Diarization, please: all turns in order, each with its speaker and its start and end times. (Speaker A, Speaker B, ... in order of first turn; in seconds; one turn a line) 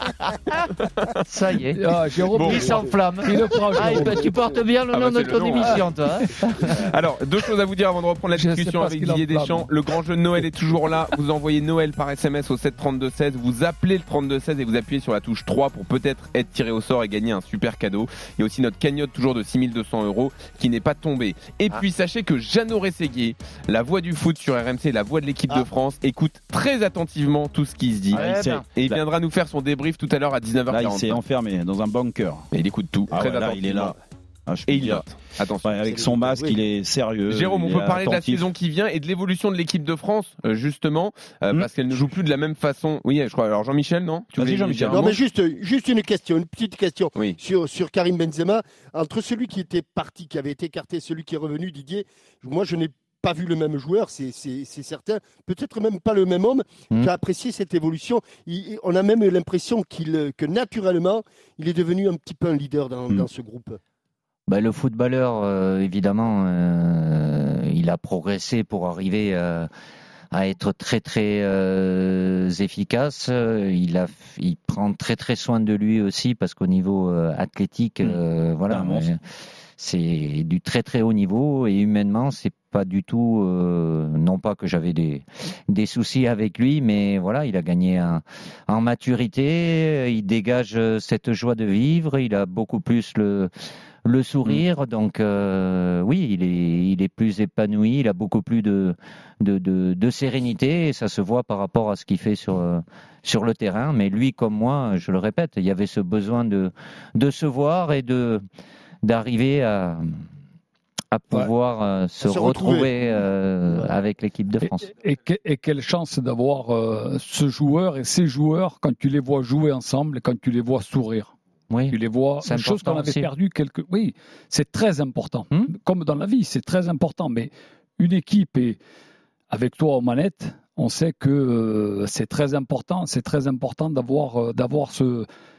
Speaker A: 0.8-1.1
Speaker B: 1.2-6.8
Speaker C: 1.7-4.3
Speaker A: 2.3-2.7
Speaker A: 4.9-5.8
Speaker C: 5.6-6.7
Speaker A: 6.6-28.2
Speaker C: 8.3-9.7
Speaker D: 28.1-29.0
Speaker B: 28.1-28.6
Speaker A: 28.8-31.2
Speaker D: 30.7-32.5
Speaker A: 32.5-34.0
Speaker D: 33.1-34.0
Speaker D: 34.5-35.0
Speaker A: 34.7-35.7
Speaker D: 35.6-38.4
Speaker E: 35.8-36.6
Speaker A: 37.3-45.1
Speaker D: 44.4-45.1
Speaker E: 44.9-63.8
Speaker B: 64.5-69.7
Speaker B: 70.3-79.2
Speaker D: 78.0-79.1
Speaker B: 79.8-93.5
Speaker B: 94.0-108.4
Speaker B: 109.0-110.2
Speaker B: 111.1-114.9
Speaker E: 112.2-112.9
Speaker C: 114.6-121.3
Speaker B: 121.7-123.3
Speaker C: 121.9-128.8
Speaker C: 129.5-135.3